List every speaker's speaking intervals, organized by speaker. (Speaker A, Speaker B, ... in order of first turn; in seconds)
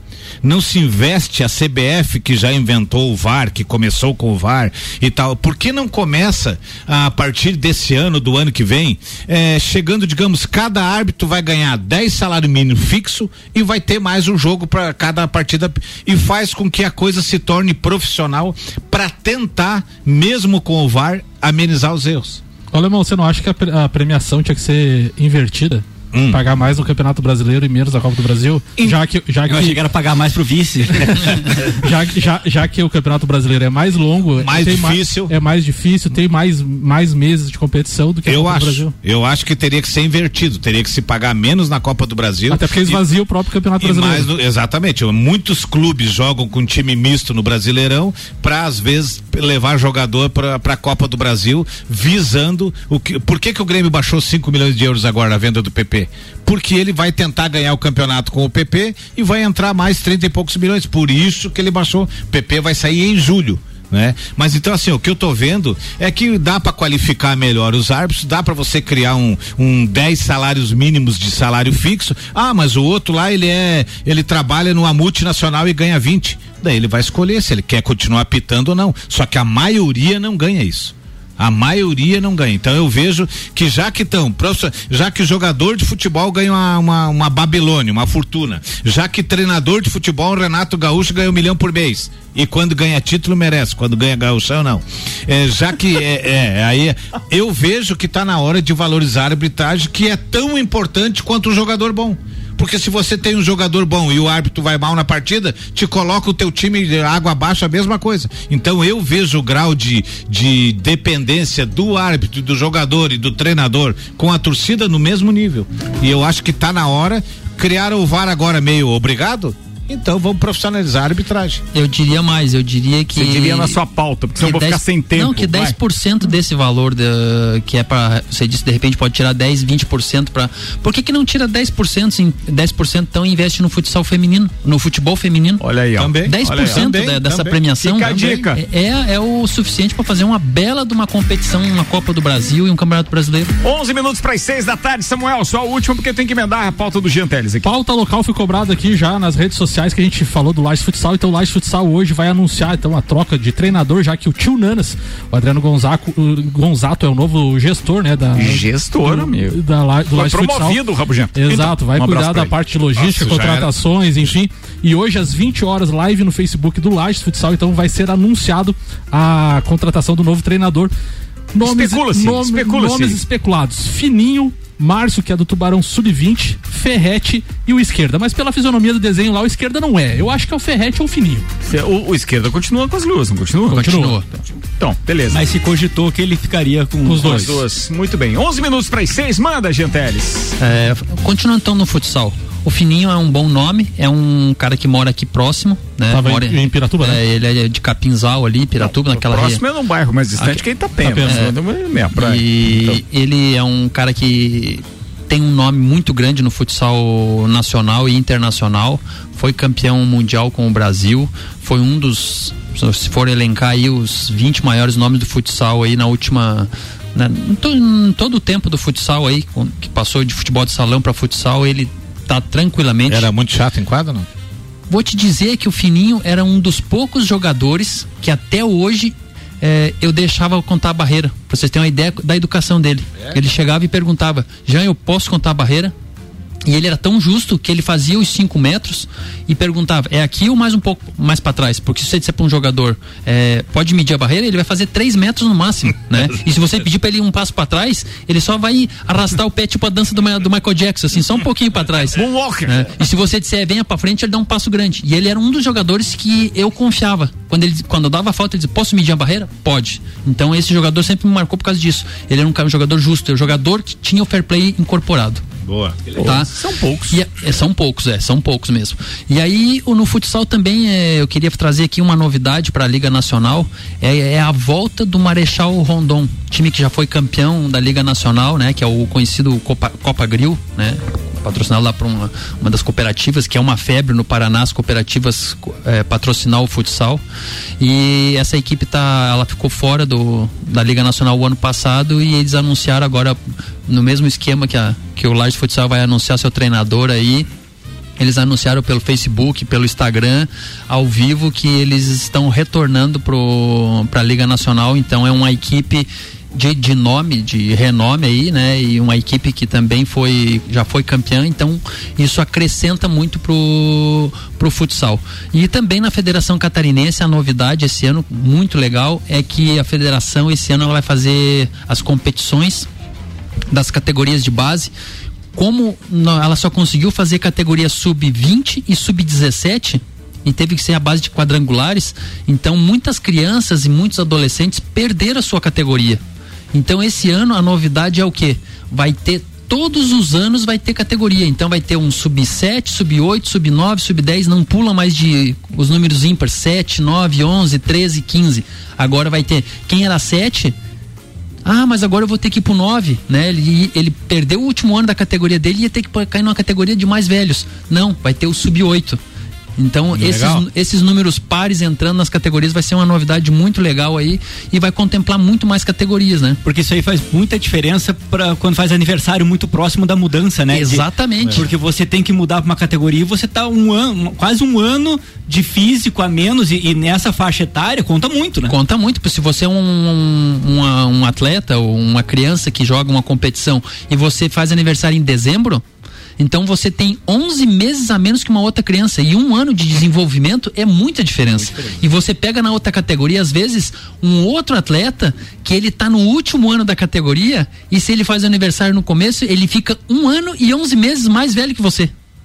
Speaker A: 0.4-22.4, 26.1-26.4, 34.4-35.3, 38.2-43.0, 43.8-121.6, 136.0-137.6, 162.9-163.7, 223.1-224.3, 265.6-266.0, 360.1-360.6
Speaker B: 22.7-29.8, 31.0-38.9, 42.5-44.3, 147.6-160.8, 161.3-170.9, 171.5-181.4, 183.7-184.1, 187.0-187.6, 196.1-197.2, 201.0-201.4
Speaker C: 29.5-31.4, 185.3-187.6, 366.6-378.8
Speaker D: 121.7-123.8, 124.4-135.6, 136.2-143.5, 183.8-184.2, 190.6-199.6, 200.4-200.6, 201.2-201.6, 202.1-223.3, 224.9-235.9, 236.6-265.4, 266.2-266.5, 267.1-287.2, 287.8-297.5, 298.2-322.9, 323.7-324.9, 325.5-336.2, 336.7-350.7, 351.6-359.2, 359.8-366.6, 370.7-371.7, 378.7-385.8, 386.4-402.1
Speaker E: 123.1-125.8, 135.6-136.9, 137.8-138.6, 143.6-147.7, 158.3-159.5, 160.1-162.5, 171.6-173.2, 181.6-185.4, 187.2-190.6, 198.8-203.0, 252.1-252.9, 266.1-267.2